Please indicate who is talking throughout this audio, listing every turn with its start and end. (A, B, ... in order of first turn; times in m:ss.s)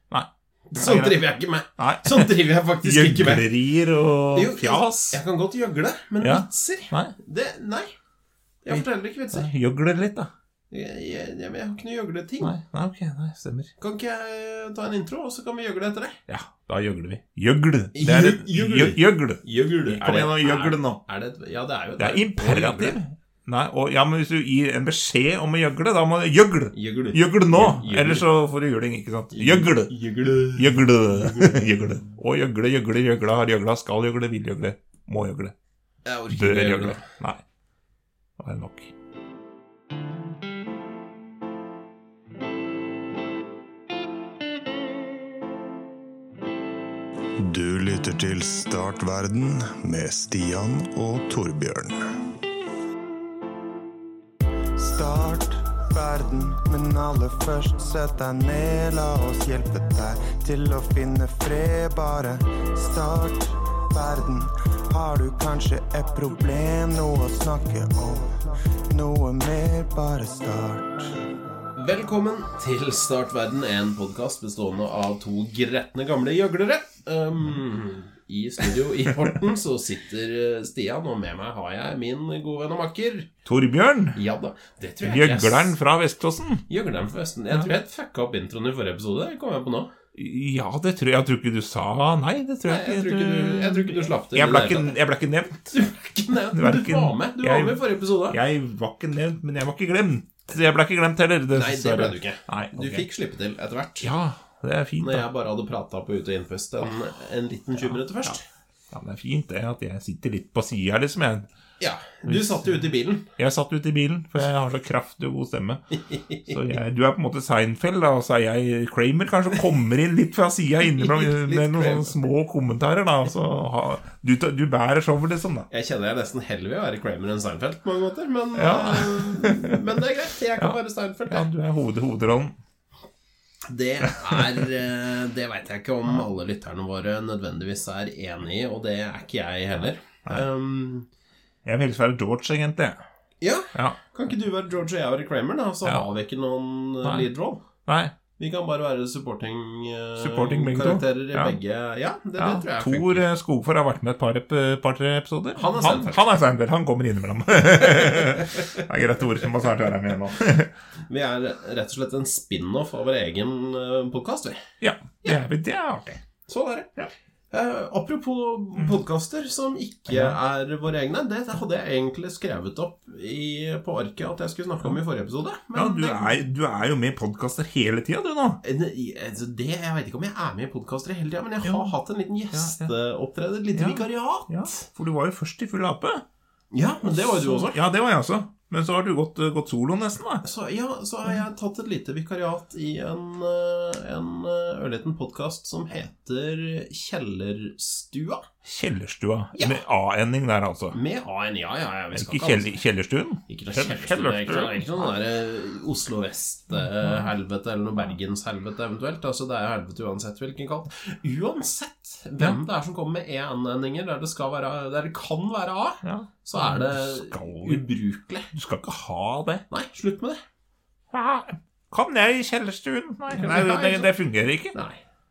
0:00.1-0:01.2 A
0:00.7-0:03.5 B
0:01.8-0:02.3 A
0:02.8-0:05.2 A
0:04.3-0:07.9 B
0:06.2-0:07.1 A
0:08.6-0:09.5 B
0:08.7-0:10.3 A
0:10.7-0:12.5 B
0:12.4-0:13.7 A
0:13.8-0:16.2 B
0:16.3-0:21.0 A
0:17.9-0:23.0 B
0:22.0-0:29.9 A
0:26.7-0:28.2 B
0:29.3-0:31.9 B
0:30.5-0:35.5 A
0:36.0-0:37.0 B
0:36.3-0:37.4 A
0:38.4-0:38.9 A
0:47.4-0:52.1 C
0:54.8-1:11.2 C
1:11.8-1:23.3 B
1:23.4-1:24.2 A
1:24.2-1:25.7 B
1:25.0-1:26.6 A
1:26.7-1:29.9 B
1:30.1-1:35.7 A
1:32.7-1:34.9 B
1:35.7-1:38.4 B
1:36.5-1:43.0 A
1:41.5-1:44.1 B
1:44.0-1:45.3 A
1:45.0-1:48.4 B
1:47.8-1:48.4 A
1:48.9-1:51.5 A
1:51.8-1:53.3 B
1:52.2-1:52.7 A
1:53.4-1:55.8 A
1:55.9-1:56.8 B
1:56.5-2:05.7 A
2:00.8-2:02.1 B
2:05.7-2:11.5 B
2:08.6-2:09.8 A
2:11.3-2:12.6 A
2:13.7-2:21.1 B
2:21.6-2:23.0 A
2:23.4-2:27.6 B
2:27.9-2:28.1 A
2:28.4-2:33.2 B
2:30.2-2:31.6 A
2:32.4-2:40.7 A
2:35.6-2:36.2 B
2:37.8-2:38.8 B
2:41.1-2:44.6 B
2:44.8-2:46.2 A
2:46.5-2:46.9 B
2:47.5-2:56.4 B
2:50.1-2:50.4 A
2:55.7-2:58.6 A
2:58.6-3:04.8 B
3:01.6-3:01.9 A
3:02.5-3:02.9 A
3:03.7-3:06.2 A
3:06.7-3:07.8 B
3:07.0-3:10.4 A
3:10.4-3:18.5 B
3:18.6-3:21.0 A
3:19.6-3:19.8 B
3:20.9-3:22.7 B
3:22.1-3:25.1 A
3:23.5-3:38.5 B
3:27.0-3:27.3 A
3:36.0-3:37.8 A
3:38.5-3:39.6 A
3:39.7-3:40.4 B
3:41.1-3:44.8 A
3:43.3-3:44.1 B
3:44.7-3:45.0 B